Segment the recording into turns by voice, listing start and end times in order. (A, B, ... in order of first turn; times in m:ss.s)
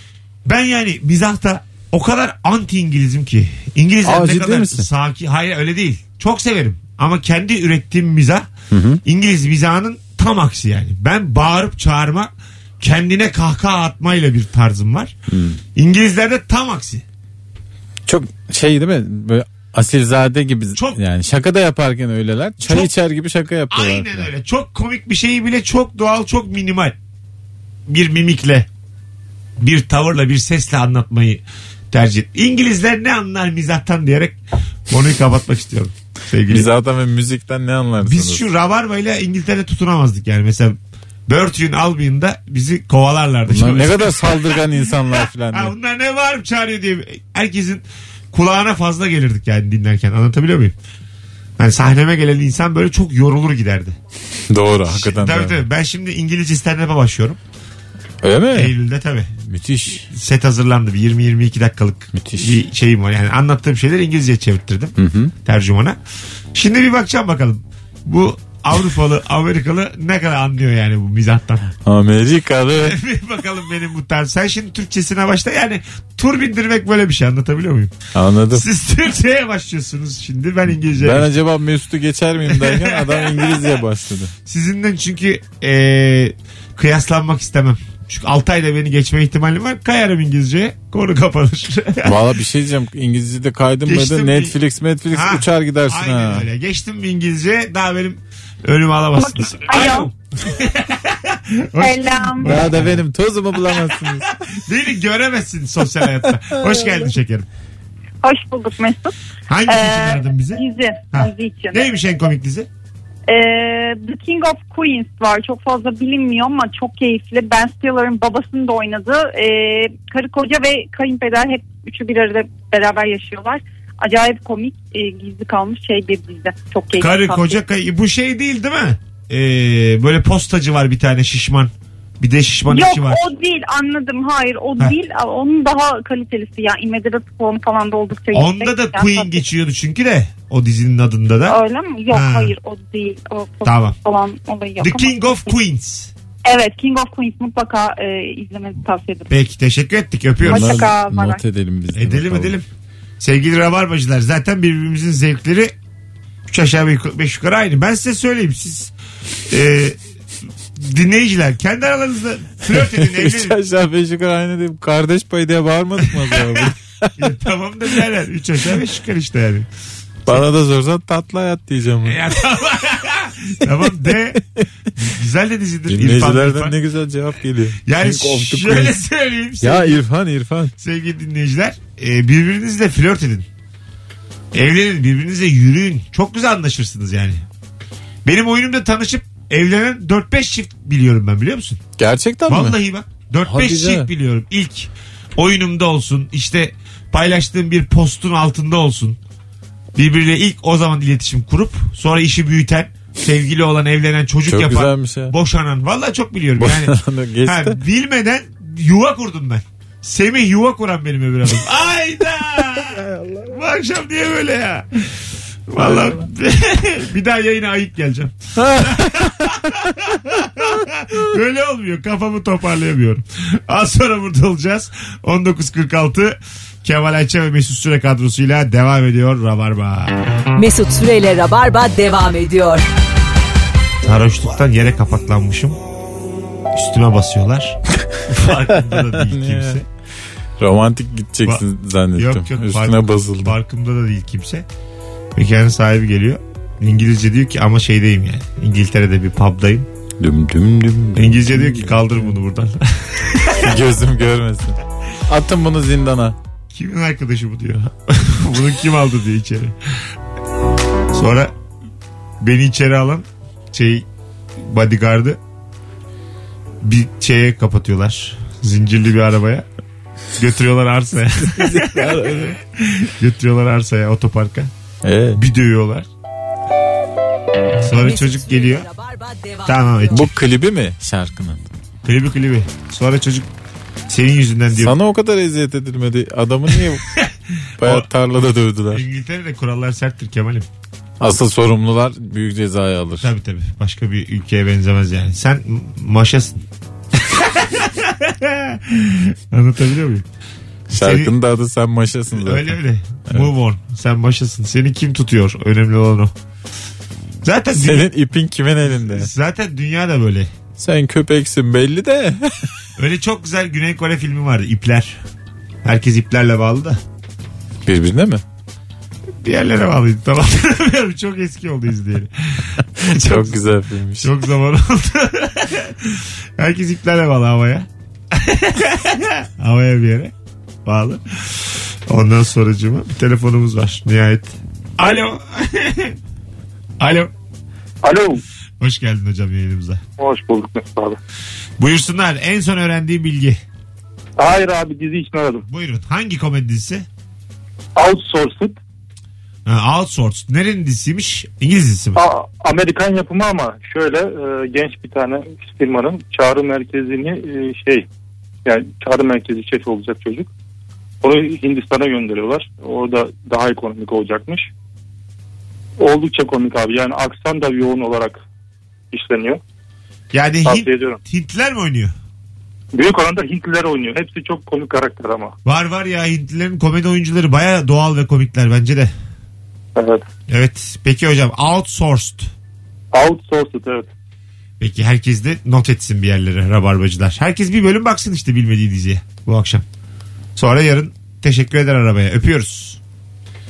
0:00.4-0:08.5 A
0:04.0-0:04.9 B
0:08.7-0:09.0 B
0:09.0-0:15.1 A
0:15.3-0:15.6 B
0:15.8-0:17.0 A
0:18.1-0:24.3 B
0:20.8-0:21.0 A
0:22.6-0:22.9 A
0:23.7-0:27.0 A
0:27.9-0:28.7 A
0:29.6-0:36.7 A
0:36.5-0:38.4 B
0:38.0-0:44.7 A
0:43.5-0:45.7 B
0:45.5-0:50.8 A
0:51.6-0:54.0 A
0:54.5-0:55.6 B
0:54.9-0:57.4 A
0:58.2-0:58.7 B
0:58.5-0:59.3 A
0:59.4-1:00.1 B
1:00.1-1:06.0 A
1:02.1-1:02.6 B
1:05.0-1:05.3 B
1:06.5-1:11.6 A
1:11.8-1:13.0 B
1:12.8-1:17.9 A
1:18.1-1:18.6 B
1:18.5-1:21.3 A
1:21.0-1:24.3 B
1:22.5-1:23.7 A
1:24.5-1:32.2 A
1:32.0-1:36.5 B
1:33.9-1:34.6 A
1:35.1-1:43.0 A
1:39.2-1:40.1 C
1:41.8-1:42.7 C
1:42.4-1:44.3 B
1:43.7-1:44.0 A
1:44.5-1:47.5 A
1:48.2-1:49.1 C
1:49.5-1:52.7 A
1:49.7-1:51.9 C
1:53.3-2:07.6 C
2:07.0-2:13.2 A
2:12.7-2:19.4 C
2:18.3-2:21.6 A
2:21.4-2:25.5 C
2:22.1-2:22.6 A
2:23.6-2:24.0 A
2:24.8-2:26.1 A
2:26.5-2:29.3 C
2:29.3-2:30.9 A
2:30.4-2:32.6 B
2:30.5-2:31.4 C
2:31.9-2:32.6 A
2:33.2-2:35.7 A
2:36.5-2:38.9 A
2:39.5-2:40.0 A
2:40.8-2:43.6 A
2:42.7-2:47.2 B
2:46.0-2:49.7 A
2:50.3-2:52.2 B
2:52.0-2:54.4 A
2:55.0-2:56.8 A
2:55.9-2:59.0 B
2:57.9-3:00.0 A
2:59.6-3:00.7 B
3:00.8-3:03.5 A
3:04.5-3:07.4 A
3:08.2-3:11.8 A
3:12.0-3:12.8 B
3:12.5-3:19.2 A
3:13.5-3:14.1 B
3:20.0-3:50.2 A
3:24.5-3:25.3 B
3:26.6-3:27.8 B
3:33.0-3:33.5 B
3:35.8-3:36.2 B
3:38.6-3:39.6 B
3:50.6-3:52.9 D
3:54.0-3:55.8 A
3:56.7-3:59.8 A
3:58.7-3:59.8 B
4:00.6-4:03.6 B
4:02.2-4:04.7 A
4:05.4-4:09.9 A
4:10.2-4:12.2 B
4:11.2-4:13.8 A
4:13.6-4:16.4 B
4:16.7-4:19.8 A
4:21.1-4:21.5 A
4:22.4-4:24.1 A
4:24.6-4:25.4 A
4:26.8-4:29.7 A
4:30.4-4:34.7 A
4:31.4-4:32.6 B
4:35.0-4:35.4 B
4:35.4-4:36.1 A
4:37.8-4:38.9 A
4:37.9-4:40.1 D
4:39.7-4:40.3 A
4:40.1-4:41.7 B
4:42.0-4:43.5 A
4:44.1-4:45.0 A
4:44.7-4:47.1 B
4:47.1-4:48.1 A
4:47.8-4:49.0 B
4:48.9-4:50.7 A
4:51.2-4:53.3 B
4:53.2-4:56.6 A
4:57.2-5:00.3 A
5:00.9-5:02.8 B
5:01.0-5:01.3 A
5:02.3-5:06.3 A
5:07.4-5:08.1 A
5:07.8-5:09.3 B
5:08.9-5:10.5 A
5:10.8-5:12.7 B
5:13.0-5:15.2 A
5:15.8-5:17.0 A
5:17.9-5:18.4 B
5:19.4-5:23.6 A
5:23.0-5:24.3 B
5:24.2-5:30.3 A
5:30.9-5:36.2 A
5:37.0-5:37.3 A
5:38.0-5:38.4 E
5:38.8-5:40.0 A
5:40.2-5:41.2 E
5:41.8-5:43.6 A
5:44.4-5:45.6 E
5:45.7-5:47.1 A
5:48.0-5:48.8 E
5:49.7-5:52.2 A
5:52.2-5:58.1 E
5:58.6-6:00.5 E
6:01.2-6:04.7 E
6:06.0-6:08.4 E
6:09.1-6:09.6 E
6:10.3-6:12.1 A
6:10.6-6:11.2 E
6:13.0-6:15.6 E
6:15.6-6:19.1 A
6:20.0-6:20.3 E
6:20.5-6:22.5 A
6:23.1-6:24.1 E
6:24.8-6:29.8 A
6:30.6-6:33.0 A